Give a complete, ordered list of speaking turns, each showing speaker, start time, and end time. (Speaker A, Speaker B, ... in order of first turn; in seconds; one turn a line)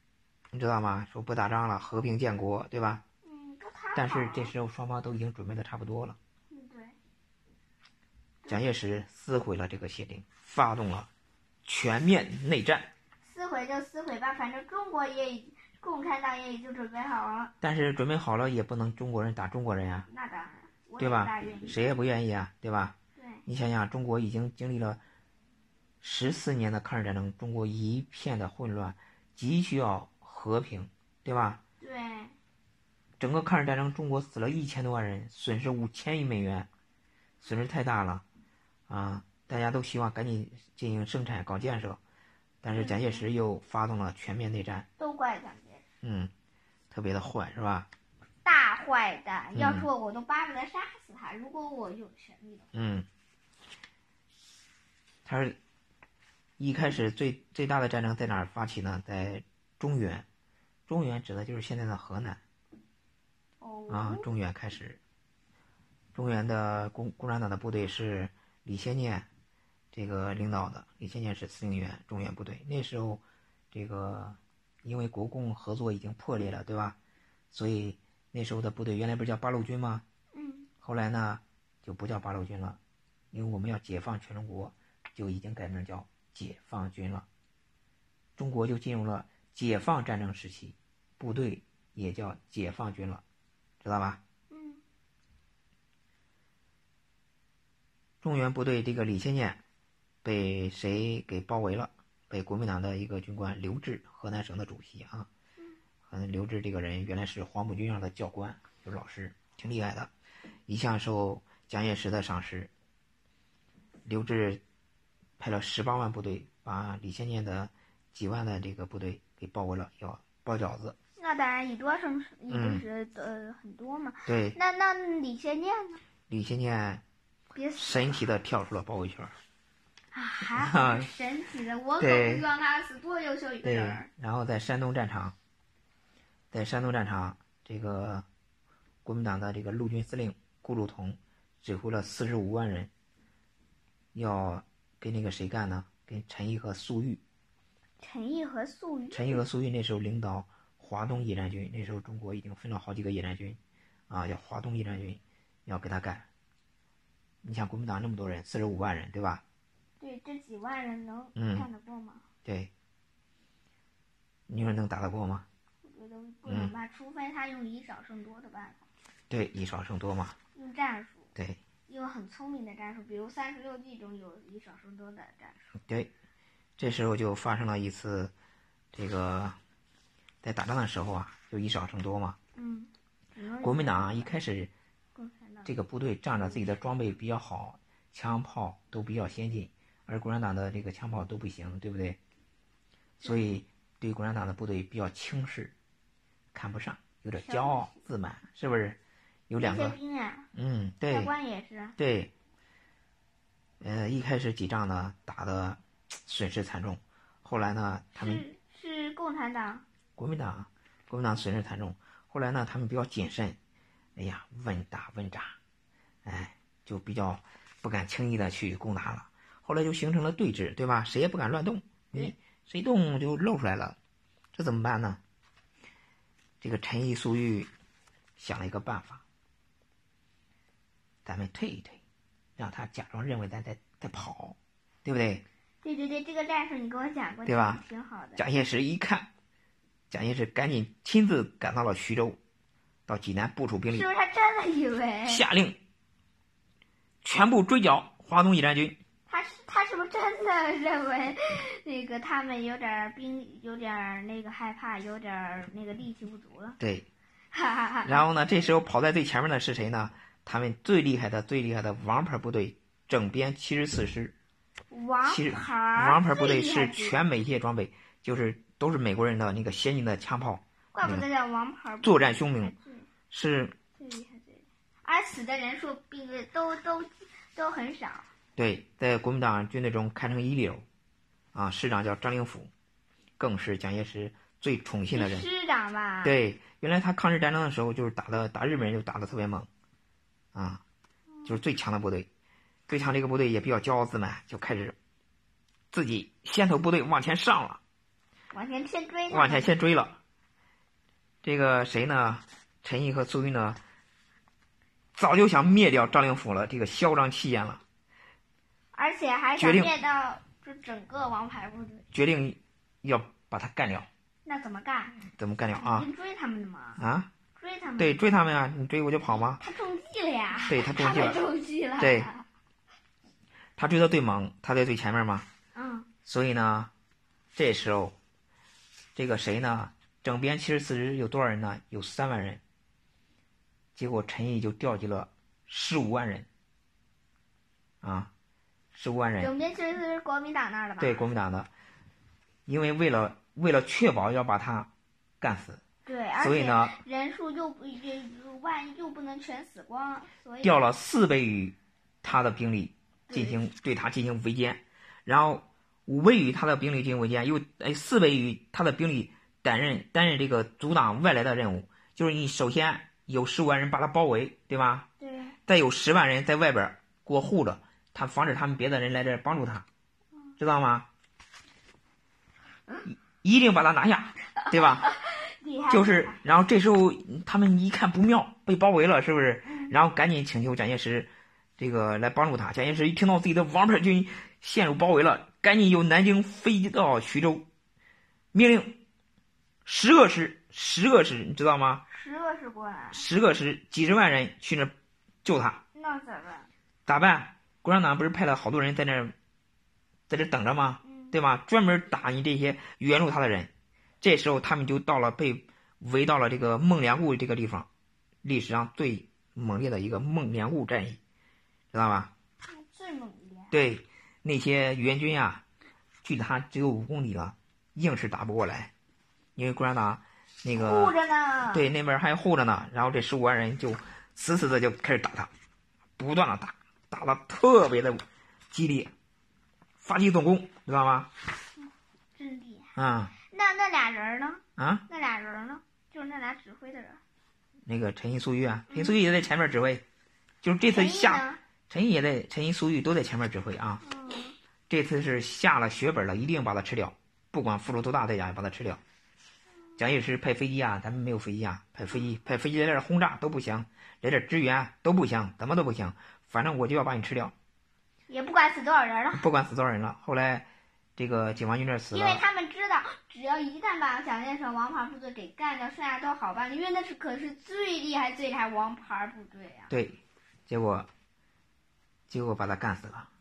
Speaker A: 0.5-3.0
Speaker B: 3.2-4.5
Speaker A: 3.9-6.2
Speaker B: 6.5-7.0
Speaker A: 8.5-11.1
Speaker A: 11.6-12.9
Speaker B: 13.2-17.5
Speaker A: 17.6-20.1
Speaker B: 20.1-21.8
Speaker A: 21.0-25.0
Speaker B: 23.2-23.4
Speaker A: 26.0-31.6
Speaker B: 31.8-32.4
Speaker A: 33.2-36.7
Speaker A: 37.4-38.2
Speaker A: 38.9-42.0
Speaker A: 42.6-44.9
Speaker B: 42.7-43.2
Speaker B: 45.0-45.8
Speaker A: 46.0-46.3
Speaker A: 46.9-47.9
Speaker B: 48.4-52.7
Speaker A: 49.5-49.9
Speaker A: 52.7-53.0
Speaker A: 55.2-55.5
Speaker A: 56.6-60.2
Speaker A: 60.9-62.4
Speaker B: 63.6-64.3
Speaker A: 63.9-65.0
Speaker A: 66.1-69.2
Speaker A: 69.9-77.0
Speaker A: 77.5-80.0
Speaker B: 80.3-80.7
Speaker A: 80.8-82.8
Speaker A: 83.3-87.2
Speaker A: 88.4-93.2
Speaker A: 93.8-94.2
Speaker B: 94.5-94.8
Speaker A: 98.2-99.6
Speaker A: 100.2-105.3
Speaker A: 106.1-110.1
Speaker A: 110.7-112.7
Speaker A: 114.0-114.6
Speaker A: 115.4-121.0
Speaker B: 121.2-126.0
Speaker A: 122.5-122.8
Speaker A: 124.2-124.6
Speaker A: 126.3-127.0
Speaker B: 127.5-128.2
Speaker A: 127.8-129.3
Speaker B: 130.1-134.1
Speaker A: 130.4-131.1
Speaker A: 132.0-132.4
Speaker A: 133.6-135.3
Speaker A: 136.5-138.2
Speaker A: 139.0-142.9
Speaker A: 144.1-147.2
Speaker B: 148.0-149.4
Speaker A: 149.1-156.2
Speaker A: 157.4-159.4
Speaker B: 160.0-162.2
Speaker A: 161.3-161.7
Speaker A: 162.4-162.7
Speaker A: 164.5-165.4
Speaker B: 165.8-168.8
Speaker A: 166.5-166.7
Speaker A: 169.3-170.3
Speaker B: 170.5-171.3
Speaker B: 171.9-175.8
Speaker A: 175.8-176.1
Speaker A: 176.8-178.3
Speaker A: 178.9-179.6
Speaker A: 180.4-182.4
Speaker B: 182.6-184.3
Speaker A: 183.6-184.7
Speaker B: 185.1-185.7
Speaker A: 185.6-192.2
Speaker A: 193.2-195.7
Speaker B: 193.2-193.5
Speaker A: 196.5-199.0
Speaker B: 197.4-197.9
Speaker A: 199.5-199.9
Speaker B: 199.6-200.5
Speaker A: 200.5-201.3
Speaker B: 201.1-201.9
Speaker A: 202.0-202.3
Speaker A: 203.8-208.4
Speaker B: 208.2-209.8
Speaker A: 210.2-213.6
Speaker A: 214.2-215.6
Speaker A: 216.2-224.0
Speaker A: 224.5-225.2
Speaker A: 226.6-227.7
Speaker A: 228.3-229.2
Speaker A: 231.2-232.0
Speaker A: 232.6-235.4
Speaker B: 235.8-238.4
Speaker A: 237.4-237.8
Speaker A: 238.4-239.3
Speaker A: 240.1-242.4
Speaker A: 243.1-244.1
Speaker B: 243.9-245.4
Speaker A: 245.3-245.8
Speaker A: 247.2-249.0
Speaker B: 249.3-256.8
Speaker A: 256.8-257.1
Speaker B: 257.5-258.2
Speaker A: 258.1-264.3
Speaker B: 264.9-267.2
Speaker A: 265.2-271.3
Speaker B: 270.9-273.1
Speaker A: 272.0-272.7
Speaker A: 273.3-273.8
Speaker B: 273.9-278.3
Speaker A: 278.6-280.8
Speaker A: 281.5-282.7
Speaker A: 283.4-285.5
Speaker B: 285.1-286.4
Speaker A: 286.2-289.7
Speaker A: 290.5-290.8
Speaker A: 291.4-292.3
Speaker A: 292.9-295.0
Speaker A: 295.9-297.8
Speaker B: 298.5-299.7
Speaker A: 299.3-300.2
Speaker A: 301.4-303.8
Speaker A: 305.1-307.8
Speaker B: 308.9-312.1
Speaker A: 309.6-309.9
Speaker A: 312.1-314.1
Speaker B: 314.4-315.2
Speaker A: 315.3-316.1
Speaker B: 315.7-317.0
Speaker A: 317.0-317.3
Speaker B: 317.6-318.2
Speaker A: 318.0-319.6
Speaker B: 319.3-322.4
Speaker A: 320.6-321.4
Speaker A: 322.0-322.3
Speaker A: 323.8-325.4
Speaker B: 325.7-326.1
Speaker A: 326.2-326.9
Speaker A: 327.5-328.1
Speaker A: 329.1-332.6
Speaker A: 333.9-336.5
Speaker A: 338.0-338.3
Speaker A: 338.9-339.5
Speaker B: 339.4-341.3
Speaker A: 341.0-341.7
Speaker A: 342.7-344.9
Speaker A: 345.4-345.8
Speaker B: 346.1-350.8
Speaker A: 346.4-347.0
Speaker A: 350.6-365.1
Speaker B: 353.3-353.6
Speaker B: 365.2-365.6
Speaker A: 365.7-369.9
Speaker A: 370.6-371.1
Speaker A: 373.1-375.1
Speaker B: 374.6-376.4
Speaker A: 375.9-387.6
Speaker B: 379.6-379.9
Speaker A: 388.5-389.0
Speaker A: 389.8-392.0
Speaker B: 392.1-393.2
Speaker A: 393.1-395.8
Speaker B: 395.9-396.7
Speaker A: 397.1-399.3
Speaker A: 400.3-407.9
Speaker B: 401.0-401.4
Speaker A: 408.4-411.2
Speaker A: 411.9-412.3
Speaker B: 412.6-413.8
Speaker A: 413.7-415.6
Speaker A: 416.2-418.9
Speaker A: 419.6-421.1
Speaker B: 420.7-421.9
Speaker A: 421.7-425.5
Speaker A: 426.2-429.1
Speaker A: 430.0-431.3
Speaker B: 431.8-432.9
Speaker A: 432.9-433.3
Speaker B: 433.5-437.2
Speaker A: 434.8-435.1
Speaker A: 437.9-440.0
Speaker B: 438.9-439.1
Speaker A: 440.6-444.0
Speaker B: 440.8-441.6
Speaker B: 444.0-444.6
Speaker A: 444.9-449.0
Speaker A: 450.0-457.5
Speaker B: 458.3-459.4
Speaker A: 459.3-462.4
Speaker B: 462.1-469.9
Speaker A: 469.9-471.1
Speaker A: 472.3-473.3